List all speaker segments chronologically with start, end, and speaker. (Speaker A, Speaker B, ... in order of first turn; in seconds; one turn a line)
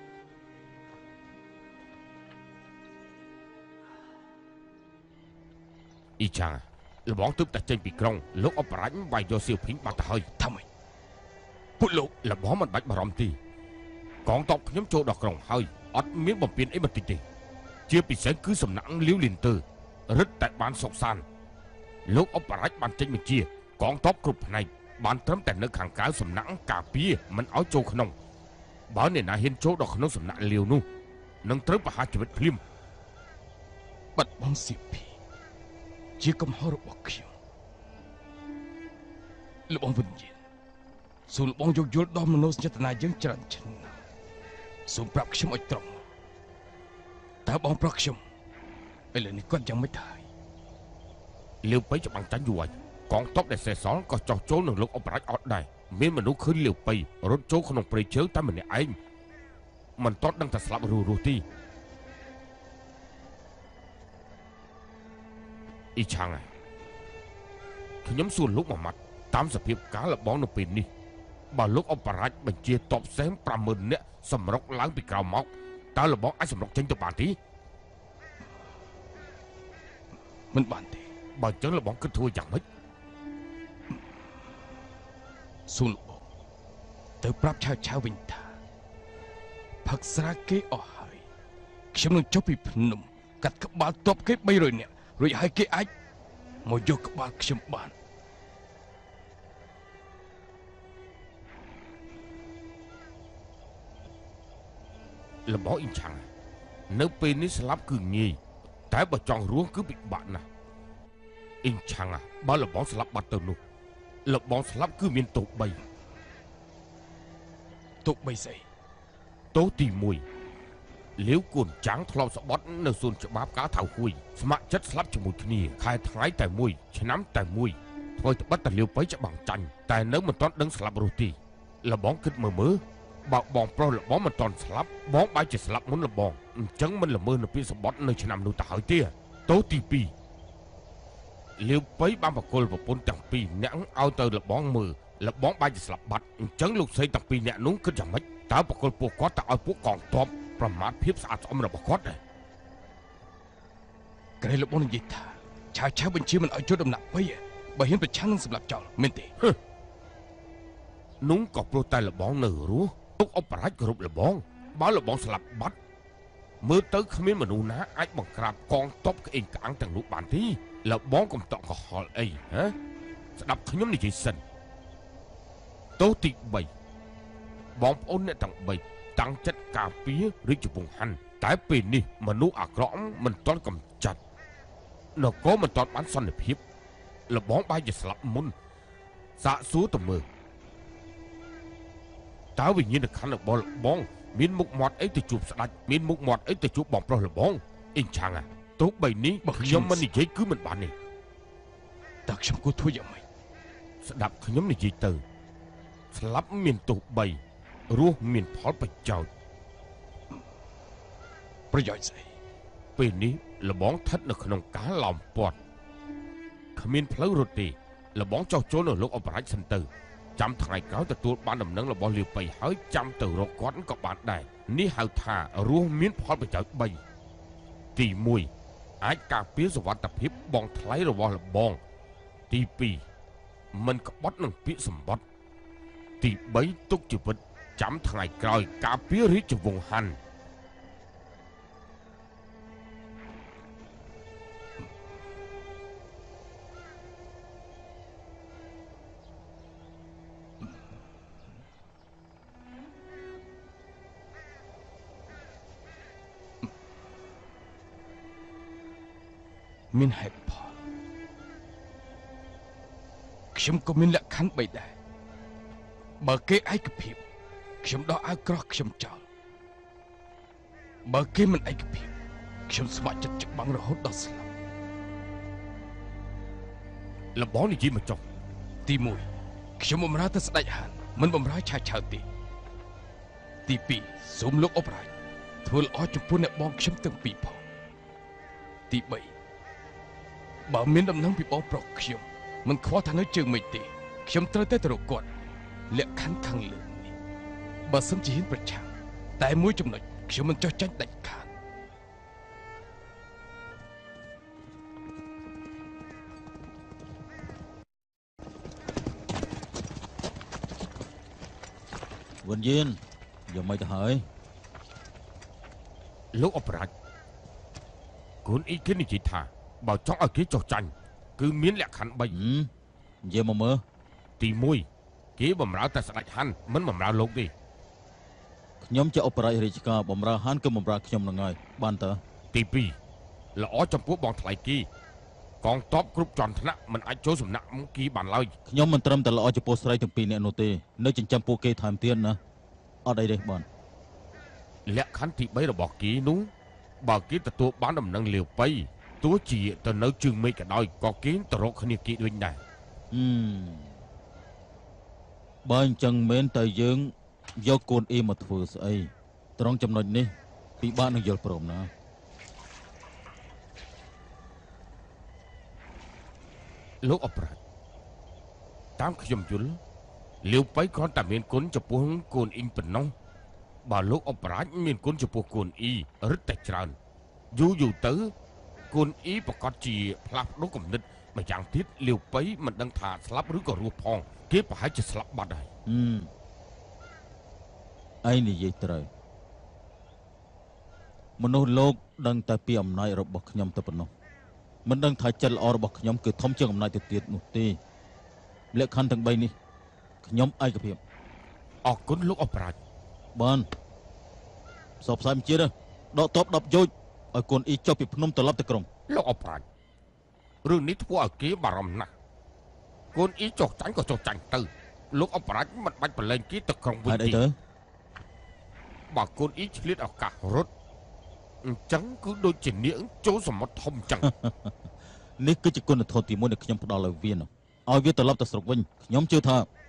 Speaker A: 6.2-10.3
Speaker B: 10.4-10.7
Speaker B: 11.8-12.1
Speaker A: 12.1-13.3
Speaker A: 14.3-17.2
Speaker A: 17.9-21.2
Speaker A: 22.1-28.1
Speaker A: 28.9-30.8
Speaker A: 31.4-32.6
Speaker B: 34.2-35.1
Speaker B: 36.2-37.3
Speaker B: 39.7-40.4
Speaker B: 41.3-44.0
Speaker B: 44.9-46.0
Speaker B: 47.5-48.2
Speaker B: 49.1-50.3
Speaker A: 51.6-59.0
Speaker A: 60.0-61.4
Speaker A: 66.0-66.5
Speaker A: 68.0-70.9
Speaker A: 71.5-77.4
Speaker B: 80.5-81.1
Speaker A: 81.4-82.6
Speaker B: 85.7-86.2
Speaker B: 87.2-88.5
Speaker B: 89.8-91.2
Speaker B: 91.9-95.9
Speaker B: 96.7-97.9
Speaker A: 105.5-106.2
Speaker A: 106.9-108.4
Speaker A: 108.9-110.5
Speaker A: 111.6-113.6
Speaker A: 114.3-115.8
Speaker B: 118.0-118.6
Speaker A: 119.5-120.2
Speaker A: 121.2-140.1
Speaker A: 141.6-152.2
Speaker B: 154.4-159.3
Speaker A: 161.2-165.8
Speaker A: 166.6-172.7
Speaker A: 173.4-174.4
Speaker A: 176.0-176.7
Speaker A: 177.8-184.2
Speaker A: 185.2-186.6
Speaker A: 187.3-188.5
Speaker A: 189.4-190.3
Speaker A: 192.6-200.9
Speaker B: 199.4-200.1
Speaker B: 202.3-203.2
Speaker A: 204.0-205.2
Speaker A: 206.1-207.4
Speaker A: 207.9-209.3
Speaker B: 211.7-212.3
Speaker A: 213.0-215.6
Speaker A: 216.8-227.0
Speaker A: 227.9-228.5
Speaker A: 229.0-231.8
Speaker A: 232.5-233.0
Speaker A: 233.7-235.2
Speaker A: 236.2-240.2
Speaker B: 259.9-260.8
Speaker B: 263.5-265.0
Speaker B: 266.2-267.2
Speaker B: 267.8-269.2
Speaker B: 271.1-272.1
Speaker B: 272.7-274.5
Speaker A: 277.4-278.2
Speaker B: 278.9-279.3
Speaker B: 279.8-282.2
Speaker B: 283.7-285.1
Speaker B: 285.6-287.6
Speaker B: 288.9-289.3
Speaker B: 290.7-295.3
Speaker B: 295.9-297.1
Speaker B: 297.9-301.5
Speaker C: 312.4-314.2
Speaker A: 316.3-316.9
Speaker A: 318.4-322.3
Speaker C: 322.3-322.7
Speaker C: 323.2-323.8
Speaker A: 324.4-324.9
Speaker A: 325.4-327.5
Speaker C: 328.8-332.2
Speaker A: 332.5-333.0
Speaker A: 333.6-334.9
Speaker A: 335.6-338.5
Speaker C: 338.7-342.4
Speaker C: 343.1-343.7
Speaker A: 344.9-346.5
Speaker A: 347.0-352.6
Speaker C: 353.1-353.9
Speaker C: 355.7-361.9
Speaker A: 367.0-367.6
Speaker A: 369.0-369.8
Speaker A: 370.4-373.1
Speaker A: 373.9-376.9
Speaker A: 377.5-378.3
Speaker A: 378.9-385.7
Speaker C: 385.9-386.3
Speaker C: 388.2-389.1
Speaker C: 391.4-394.1
Speaker C: 394.9-397.8
Speaker C: 398.7-399.6
Speaker C: 400.2-401.0
Speaker A: 401.9-402.8
Speaker C: 403.4-403.7
Speaker C: 405.0-408.9
Speaker A: 409.1-409.6
Speaker A: 410.6-412.1
Speaker A: 413.1-417.4
Speaker C: 417.1-417.6
Speaker A: 419.1-420.7
Speaker A: 421.6-424.3
Speaker C: 424.2-429.7